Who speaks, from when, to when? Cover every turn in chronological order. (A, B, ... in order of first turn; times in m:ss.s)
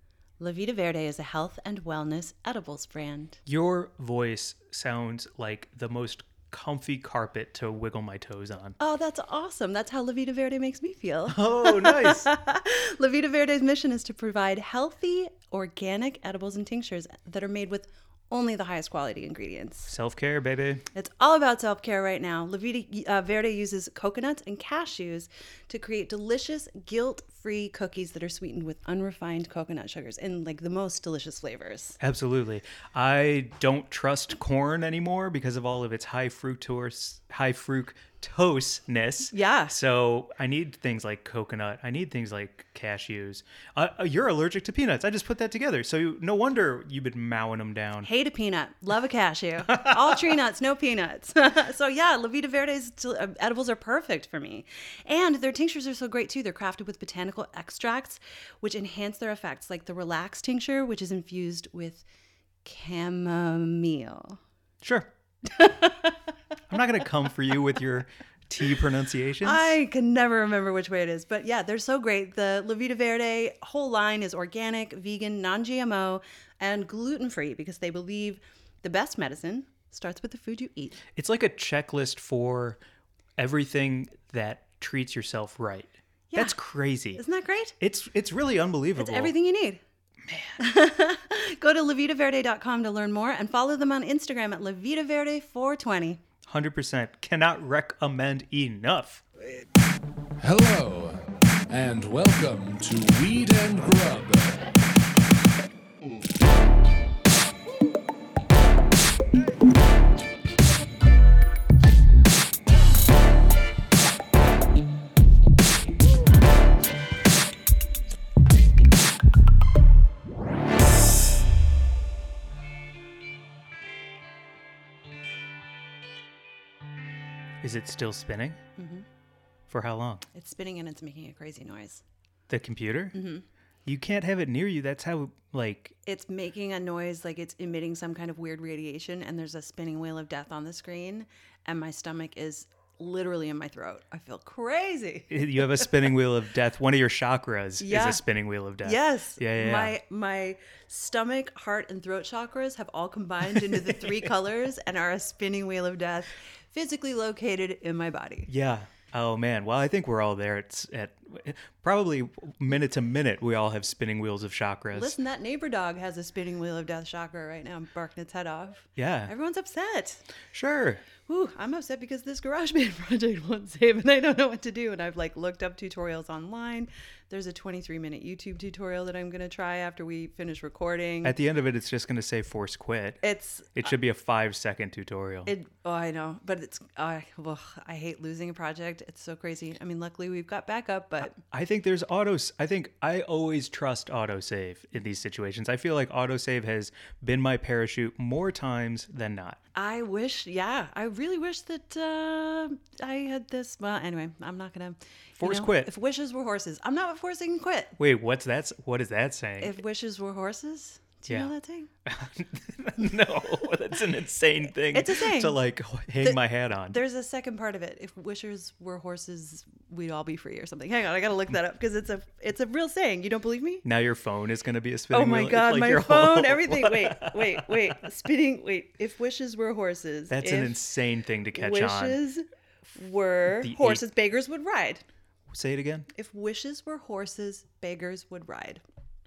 0:00.4-0:03.4 A
0:03.4-0:08.8 B
0:08.8-0:19.9 A
0:11.3-0:12.3 B
0:19.9-0:20.8 B
0:20.9-0:32.0 A
0:32.0-0:48.1 B
0:39.3-0:39.7 A
0:48.0-1:02.0 A
1:02.6-1:04.4 A
1:04.8-1:05.1 B
1:05.5-1:06.2 A
1:06.7-1:09.7 B
1:09.4-1:21.0 A
1:21.1-1:22.8 B
1:23.4-1:27.2 B
1:26.3-1:26.6 A
1:27.1-1:27.8 A
1:27.8-1:29.3 B
1:29.0-1:29.8 A
1:30.2-1:30.6 B
1:30.6-1:36.2 A
1:36.5-1:39.2 B
1:40.4-1:44.6 C
2:07.6-2:08.6 B
2:08.8-2:09.0 A
2:09.7-2:10.2 B
2:10.3-2:12.0 A
2:12.5-2:13.2 B
2:13.1-2:13.4 A
2:13.8-2:15.9 B
2:16.0-2:25.9 A
2:25.3-2:29.9 B
2:27.8-2:28.2 A
2:28.8-2:38.5 A
2:33.5-2:34.2 B
2:38.5-2:45.2 B
2:44.9-2:50.2 A
2:49.0-2:49.3 B
2:50.5-2:51.0 B
2:51.2-3:01.4 A
3:01.2-3:03.2 B
3:03.2-3:03.8 A
3:03.7-3:05.5 B
3:05.4-3:11.4 A
3:11.3-3:19.6 B
3:19.7-3:28.0 A
3:25.4-3:25.9 B
3:28.0-3:29.8 B
3:29.6-3:31.9 A
3:32.0-3:37.0 B
3:34.9-3:35.6 A
3:36.2-3:43.8 A
3:43.8-3:48.0 B
3:45.1-3:50.8 A
3:50.3-3:52.2 B
3:51.5-3:55.0 A
3:53.6-3:54.0 B
3:55.5-3:56.1 B
3:56.1-3:58.8 A